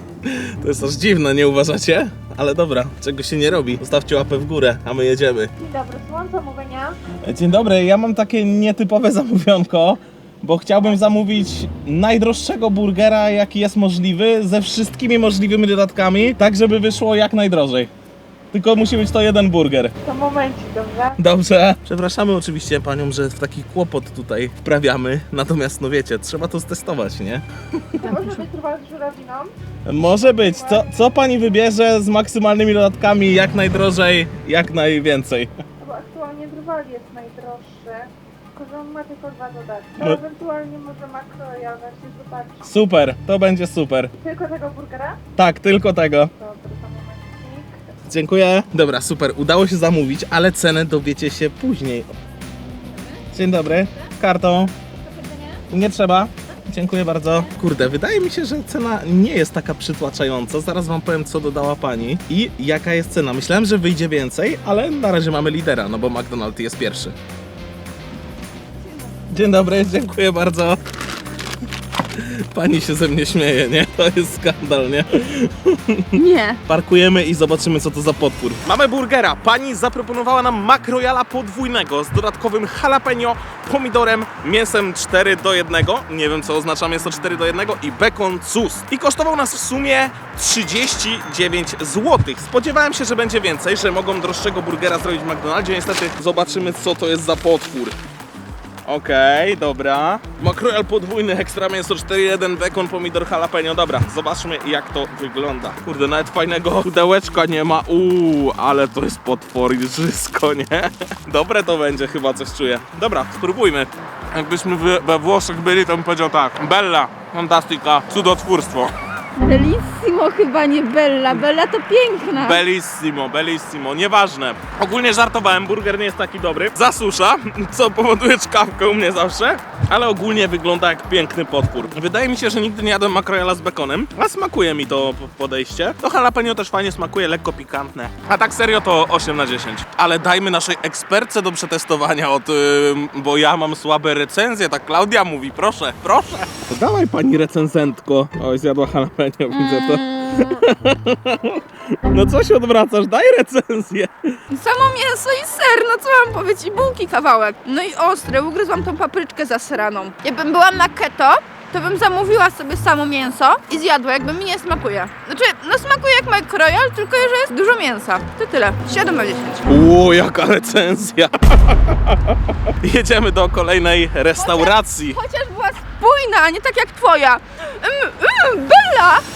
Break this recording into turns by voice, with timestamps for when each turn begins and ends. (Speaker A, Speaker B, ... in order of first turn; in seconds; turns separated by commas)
Speaker A: 0.2-5.5, Speaker B: 5.6-7.0, Speaker A: 7.2-17.9, Speaker A: 18.5-19.9, Speaker B: 20.0-21.2, Speaker A: 21.2-28.0, Speaker C: 28.0-28.4, Speaker B: 28.0-31.1, Speaker A: 29.9-35.5, Speaker B: 35.8-42.7, Speaker A: 42.6-44.1, Speaker B: 44.2-45.2, Speaker A: 45.4-46.3, Speaker B: 46.3-47.7, Speaker A: 48.1-52.1, Speaker A: 53.3-54.7, Speaker A: 55.7-67.2, Speaker A: 69.3-70.8, Speaker A: 72.1-98.0, Speaker C: 76.1-76.6, Speaker A: 98.8-118.9, Speaker C: 119.4-122.6, Speaker A: 122.3-154.3, Speaker C: 149.5-150.6, Speaker C: 154.5-169.6, Speaker A: 169.7-172.2, Speaker A: 172.8-175.2, Speaker C: 174.4-179.2